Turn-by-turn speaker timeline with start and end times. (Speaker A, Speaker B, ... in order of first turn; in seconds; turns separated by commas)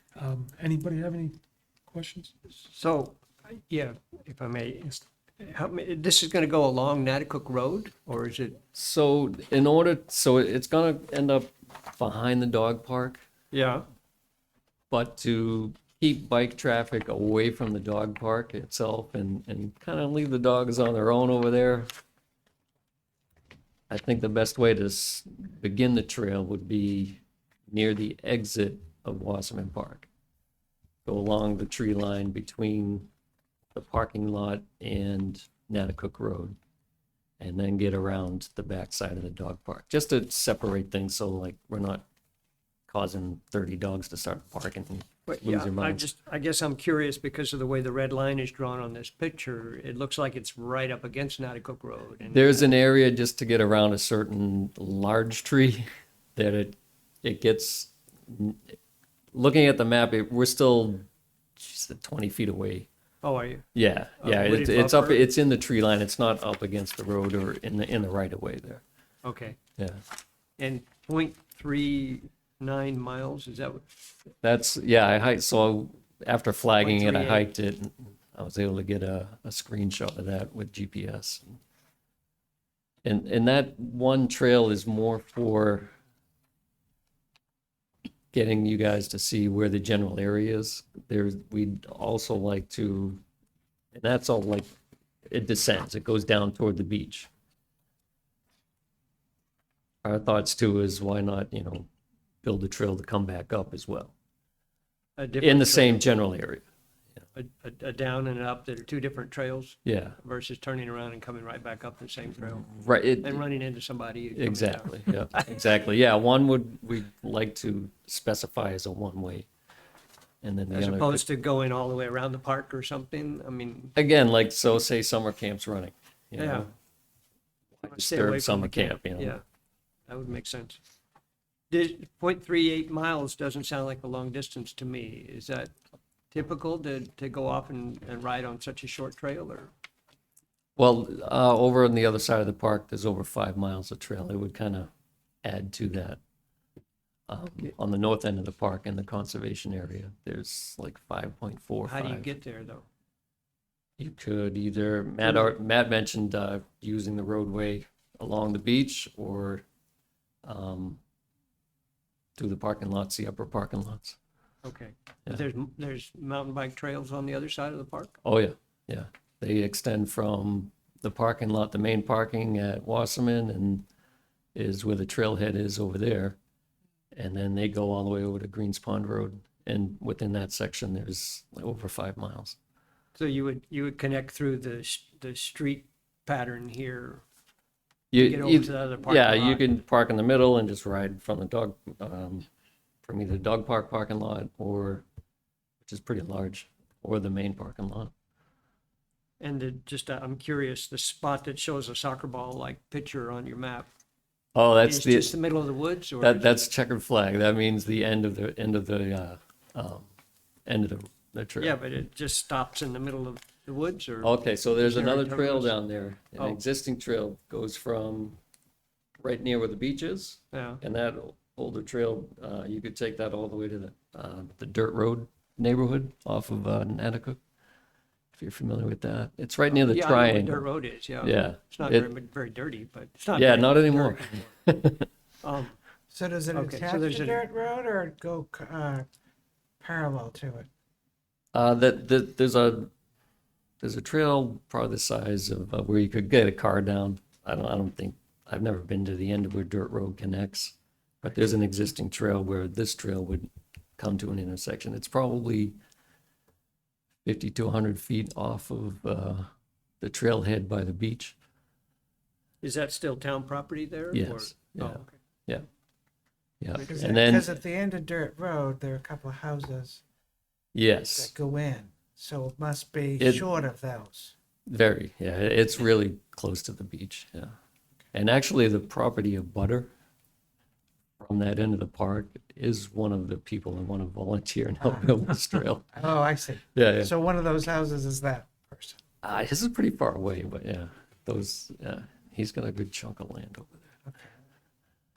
Speaker A: 0.1-2.3, Speaker B: 2.6-8.6, Speaker C: 8.7-13.2, Speaker B: 13.5-13.8, Speaker C: 14.9-21.9, Speaker C: 23.9-30.1, Speaker C: 31.1-33.1, Speaker C: 33.8-36.6, Speaker C: 37.4-42.0, Speaker C: 42.9-46.0, Speaker B: 45.3-52.7, Speaker C: 52.3-58.7, Speaker C: 59.3-61.1, Speaker C: 61.6-62.9, Speaker B: 63.2-63.7, Speaker C: 63.8-68.8, Speaker B: 64.2-65.2, Speaker B: 69.2-69.6, Speaker B: 70.6-73.9, Speaker C: 74.4-81.6, Speaker B: 76.8-77.5, Speaker C: 83.0-85.9, Speaker C: 88.3-93.2, Speaker C: 94.0-94.7, Speaker C: 95.3-97.3, Speaker C: 100.0-101.9, Speaker C: 102.4-104.1, Speaker B: 105.2-106.1, Speaker C: 105.4-106.6, Speaker B: 107.3-115.6, Speaker C: 109.8-110.2, Speaker C: 112.7-113.5, Speaker C: 114.3-119.5, Speaker C: 120.4-121.2, Speaker B: 120.7-124.0, Speaker C: 124.0-126.7, Speaker B: 126.4-126.7, Speaker C: 127.8-129.4, Speaker B: 127.8-129.4, Speaker B: 130.1-130.8, Speaker B: 131.7-135.7, Speaker B: 136.3-139.7, Speaker C: 140.8-144.9, Speaker C: 145.4-146.2, Speaker C: 147.3-152.3, Speaker B: 151.8-152.9, Speaker C: 154.0-159.6, Speaker C: 160.4-161.0, Speaker C: 162.4-164.2, Speaker B: 164.6-168.2, Speaker C: 168.2-173.9, Speaker C: 174.6-176.4, Speaker C: 177.1-182.6, Speaker B: 183.2-187.2, Speaker C: 188.1-192.5, Speaker B: 188.1-189.7, Speaker C: 193.0-195.0, Speaker C: 195.8-198.1, Speaker B: 199.4-203.9, Speaker C: 204.6-205.3, Speaker B: 204.8-206.6, Speaker C: 206.2-210.1, Speaker C: 210.7-211.8, Speaker B: 211.6-215.8, Speaker C: 214.2-218.4, Speaker C: 219.2-227.4, Speaker B: 220.5-220.8, Speaker C: 228.3-230.7, Speaker B: 229.7-234.5, Speaker C: 231.2-232.1, Speaker C: 233.3-235.1, Speaker B: 235.4-235.8, Speaker D: 236.1-239.1, Speaker B: 236.5-237.4, Speaker D: 239.8-240.7, Speaker C: 241.5-242.9, Speaker C: 243.8-255.8, Speaker C: 257.2-259.5, Speaker C: 260.0-261.4, Speaker B: 262.6-265.1, Speaker C: 264.1-265.6, Speaker C: 266.6-267.4, Speaker D: 266.8-270.0, Speaker C: 270.7-271.3, Speaker D: 271.1-274.3, Speaker C: 273.2-273.4, Speaker C: 274.7-277.5, Speaker C: 278.1-279.9, Speaker C: 281.2-285.9, Speaker D: 284.8-285.1, Speaker D: 285.9-289.0, Speaker C: 286.7-287.1, Speaker C: 289.2-293.8